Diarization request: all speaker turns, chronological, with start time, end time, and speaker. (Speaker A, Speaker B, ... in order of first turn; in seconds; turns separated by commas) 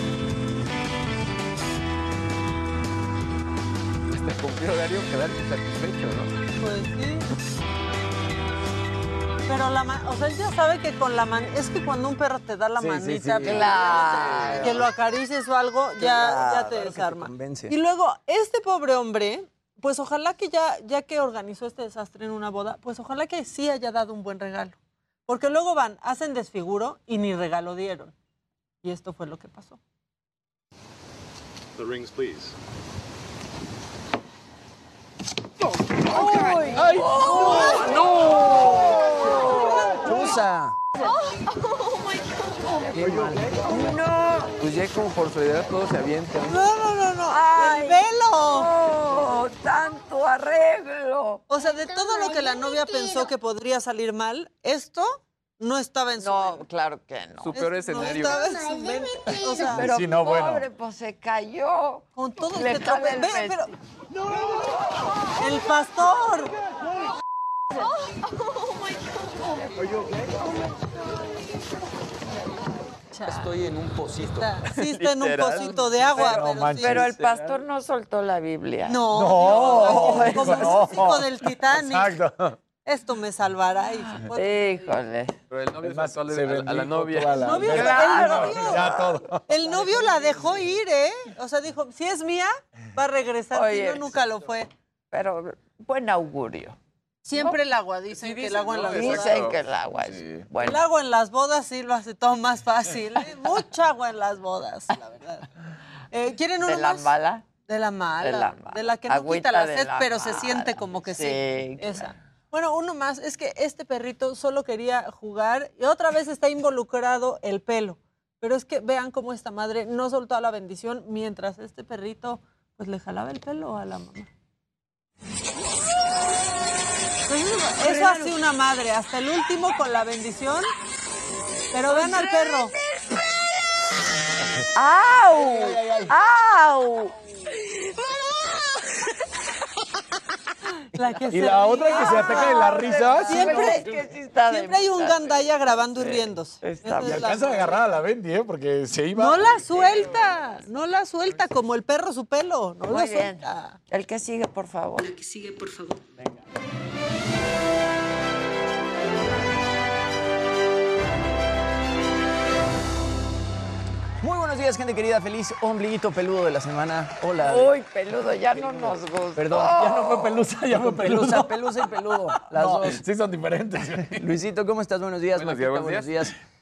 Speaker A: 4.1-6.3, Speaker B: 6.6-7.3, Speaker B: 9.5-28.1, Speaker C: 12.8-14.6, Speaker D: 13.4-14.8, Speaker E: 16.0-17.7, Speaker B: 28.8-29.8, Speaker B: 36.1-38.1, Speaker D: 36.1-40.3, Speaker A: 36.8-37.7, Speaker E: 40.0-40.8, Speaker A: 42.9-43.6, Speaker D: 43.6-44.5, Speaker A: 44.6-46.6, Speaker B: 46.5-48.7, Speaker D: 47.3-51.4, Speaker B: 51.5-56.6, Speaker D: 56.2-58.2, Speaker A: 57.4-58.5, Speaker B: 57.5-59.9, Speaker D: 59.6-63.6, Speaker C: 59.7-60.6, Speaker B: 62.1-63.7, Speaker B: 65.4-66.5, Speaker B: 73.1-77.1, Speaker C: 74.8-77.5, Speaker D: 76.8-80.9, Speaker B: 78.8-82.2, Speaker C: 79.1-82.5, Speaker B: 82.8-84.9, Speaker D: 84.1-85.3, Speaker A: 85.5-88.0, Speaker C: 85.8-89.4, Speaker B: 87.3-88.9, Speaker D: 87.7-89.2, Speaker B: 89.5-94.7, Speaker D: 93.5-94.2, Speaker D: 95.1-96.8, Speaker B: 97.2-99.5, Speaker A: 98.1-99.6, Speaker D: 98.9-100.8, Speaker B: 100.6-105.5, Speaker B: 106.1-107.1, Speaker D: 106.6-107.4, Speaker B: 107.7-124.3, Speaker D: 108.2-112.1, Speaker B: 127.3-130.7, Speaker D: 127.8-128.3, Speaker B: 131.7-132.7, Speaker D: 134.7-137.1, Speaker B: 140.9-142.7, Speaker C: 141.3-143.9, Speaker D: 141.8-147.5, Speaker B: 143.2-147.8, Speaker C: 147.0-149.5, Speaker B: 149.1-153.8, Speaker D: 149.8-150.1, Speaker D: 152.9-155.1, Speaker E: 164.2-167.7, Speaker D: 167.4-170.4, Speaker E: 168.6-173.0, Speaker C: 169.8-171.5, Speaker C: 172.4-174.2, Speaker E: 174.1-176.3, Speaker A: 175.3-176.2